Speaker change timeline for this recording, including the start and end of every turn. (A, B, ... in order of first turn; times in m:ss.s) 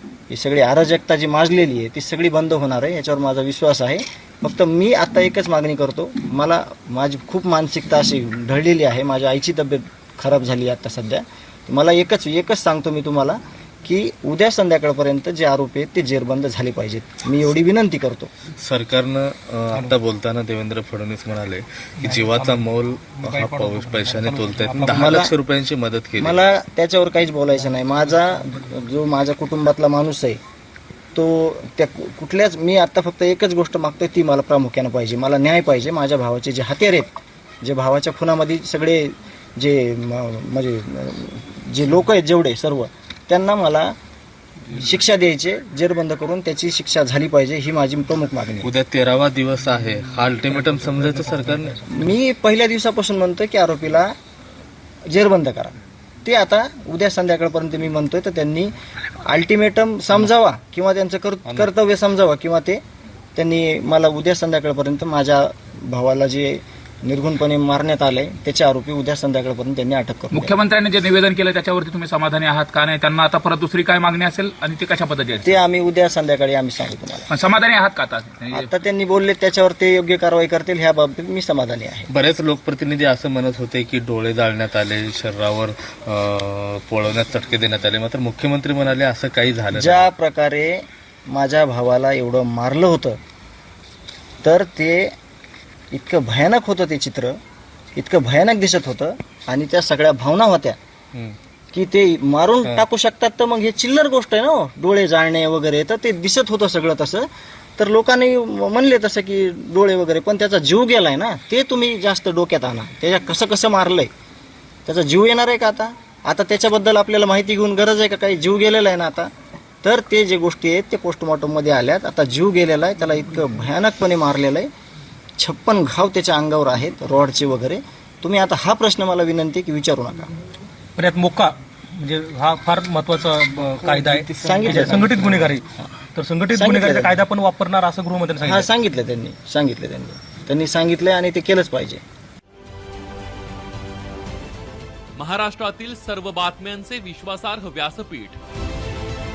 0:00.3-0:18.3 A
0:18.6-0:26.4 B
0:23.5-0:24.8 C
0:24.8-0:25.3 A
0:26.2-0:30.4 A
0:31.2-0:37.1 A
0:37.6-0:44.0 A
0:44.7-0:48.7 A
0:48.6-0:51.9 B
0:51.8-0:54.1 A
0:55.1-1:02.8 A
1:03.4-1:10.5 A
1:10.3-1:15.6 D
1:15.4-1:17.3 A
1:17.3-1:18.7 D
1:18.5-1:22.1 A
1:22.1-1:30.1 B
1:29.7-1:33.2 A
1:34.4-1:35.1 A
1:35.9-1:37.4 A
1:38.0-1:40.8 A
1:41.7-1:54.1 A
1:54.9-1:59.3 A
1:59.8-2:04.7 A
2:05.4-2:10.3 A
2:11.0-2:18.7 C
2:13.8-2:15.8 A
2:16.5-2:17.3 A
2:18.4-2:22.0 A
2:25.2-2:28.4 E